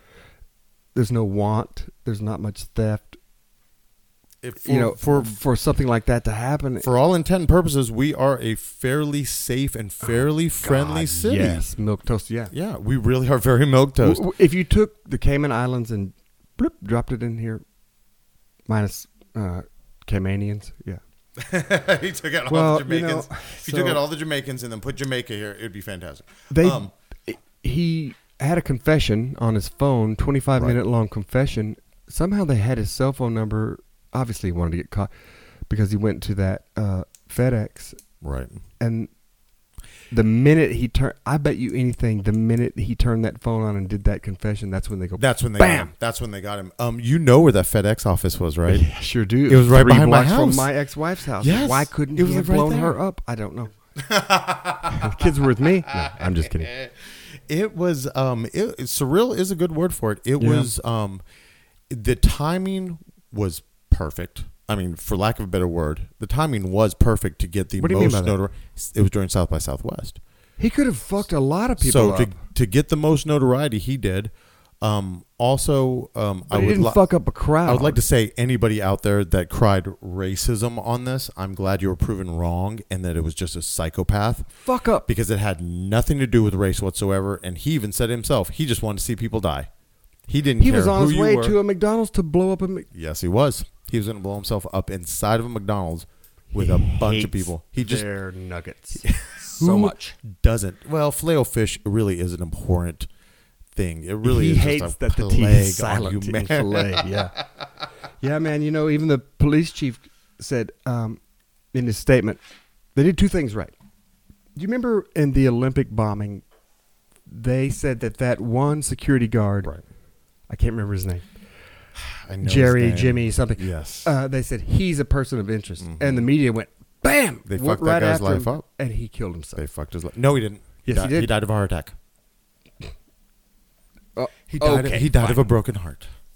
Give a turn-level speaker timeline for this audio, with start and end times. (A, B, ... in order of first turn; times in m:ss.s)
0:01.0-0:03.2 A
0:04.4-0:05.4 B
0:04.6-0:06.9 A
0:06.8-0:11.7 B
0:10.0-0:12.5 A
0:12.5-0:14.3 B
0:14.0-0:17.6 A
0:18.7-0:21.0 A
0:21.4-0:26.9 B
0:22.5-0:24.0 A
0:26.5-0:35.1 A
0:35.7-0:38.0 A
0:38.2-0:38.6 B
0:38.8-0:39.1 A
0:40.1-0:45.9 A
0:45.2-0:48.9 B
0:48.7-0:53.8 A
0:49.5-0:50.7 B
0:51.4-0:53.0 B
0:54.0-0:55.3 B
0:54.9-0:56.7 A
0:56.0-0:57.0 B
0:57.5-1:01.2 B
1:00.4-1:00.7 A
1:01.9-1:10.2 B
1:07.8-1:08.4 A
1:10.6-1:12.4 A
1:11.8-1:17.0 B
1:16.5-1:18.0 A
1:17.6-1:24.5 B
1:24.6-1:25.1 A
1:25.1-1:29.7 B
1:30.3-1:31.6 B
1:30.6-1:32.9 A
1:32.9-1:38.1 B
1:36.5-1:40.2 A
1:39.0-1:43.1 B
1:43.7-1:47.1 B
1:44.2-1:47.4 A
1:48.2-1:51.2 A
1:51.7-1:52.4 A
1:53.0-1:53.7 A
1:54.6-1:56.4 A
1:57.3-1:59.7 A
2:00.5-2:01.2 A
2:02.0-2:04.1 B
2:02.4-2:09.6 A
2:05.8-2:06.3 B
2:07.5-2:08.6 B
2:09.6-2:11.9 B
2:10.8-2:11.3 A
2:14.2-2:15.5 A
2:14.5-2:16.1 B